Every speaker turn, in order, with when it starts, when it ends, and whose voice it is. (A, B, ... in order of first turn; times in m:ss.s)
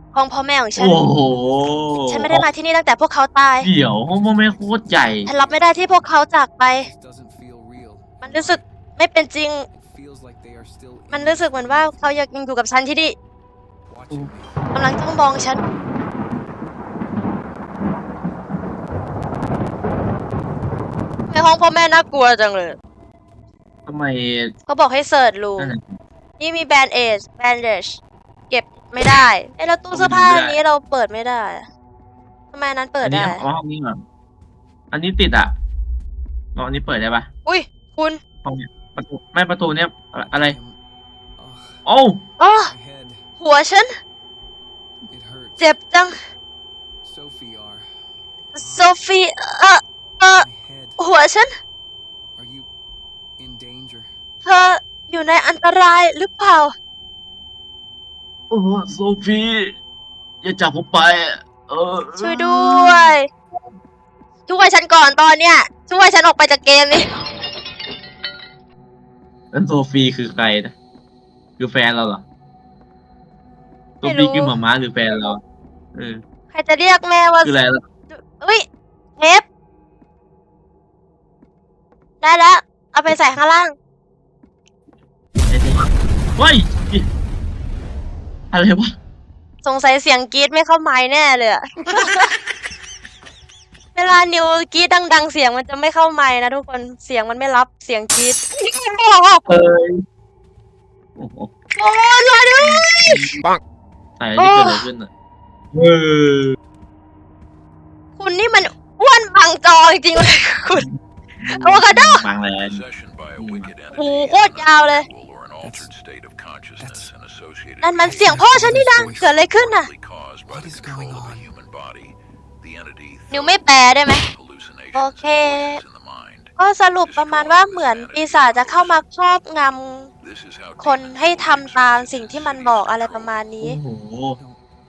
0:00.1-0:01.0 A
0:00.8-0:02.5 B
0:01.3-0:01.9 C
0:02.1-0:03.7 A
0:03.6-0:05.3 B
0:04.1-0:05.6 C
0:05.3-0:06.9 A
0:06.8-0:08.6 C
0:08.2-0:09.7 A
0:09.7-0:12.2 C
0:11.1-0:13.2 A
0:13.9-0:14.6 C
0:14.7-0:15.6 A
0:21.3-0:22.8 A
0:23.9-0:24.5 B
0:24.7-0:25.7 A
0:25.6-0:26.0 B
0:26.4-0:31.7 A
0:29.9-0:30.6 B
0:32.5-0:33.4 A
0:33.0-0:34.0 B
0:34.9-0:35.6 B
0:36.6-0:37.3 B
0:37.5-0:38.2 A
0:38.4-0:40.6 B
0:40.4-0:40.8 C
0:41.4-0:41.8 C
0:41.9-0:42.2 B
0:42.4-0:42.7 A
0:42.6-0:43.2 C
0:43.4-0:43.9 A
0:45.1-0:45.6 C
0:45.6-0:46.1 A
0:47.0-0:47.9 C
0:48.5-0:48.9 C
0:48.6-0:50.4 A
0:50.4-0:51.0 C
0:51.0-0:51.5 A
0:52.4-0:52.7 C
0:53.4-0:54.2 C
0:54.4-0:56.7 A
0:58.5-0:59.8 B
1:00.4-1:03.2 B
1:02.2-1:03.3 A
1:04.5-1:07.1 A
1:09.5-1:10.7 B
1:11.6-1:12.2 B
1:14.0-1:15.4 B
1:14.0-1:14.5 A
1:16.0-1:16.2 B
1:16.5-1:17.5 A
1:17.4-1:17.8 B
1:18.1-1:18.7 A
1:19.2-1:19.4 A
1:22.2-1:23.8 A
1:25.5-1:27.1 B
1:28.5-1:28.9 B
1:29.6-1:32.3 A
1:34.0-1:39.4 A
1:39.5-1:40.0 B
1:41.2-1:41.5 B
1:41.8-1:43.3 A
1:42.6-1:43.4 B
1:44.2-1:45.1 B
1:44.4-1:44.8 A
1:45.7-1:46.6 B
1:48.2-1:50.9 A
1:51.4-1:52.8 B
1:51.5-1:52.2 A
1:52.6-2:09.0 D
1:53.4-1:53.7 B
1:53.9-1:55.1 A
1:55.6-1:55.9 C
1:56.8-1:57.1 C
1:57.8-1:59.9 A
1:58.2-1:59.3 C
2:00.5-2:01.5 C
2:03.3-2:04.2 A
2:05.0-2:05.8 A
2:06.6-2:10.1 A
2:10.2-2:13.4 D
2:10.8-2:13.8 A
2:13.6-2:14.4 B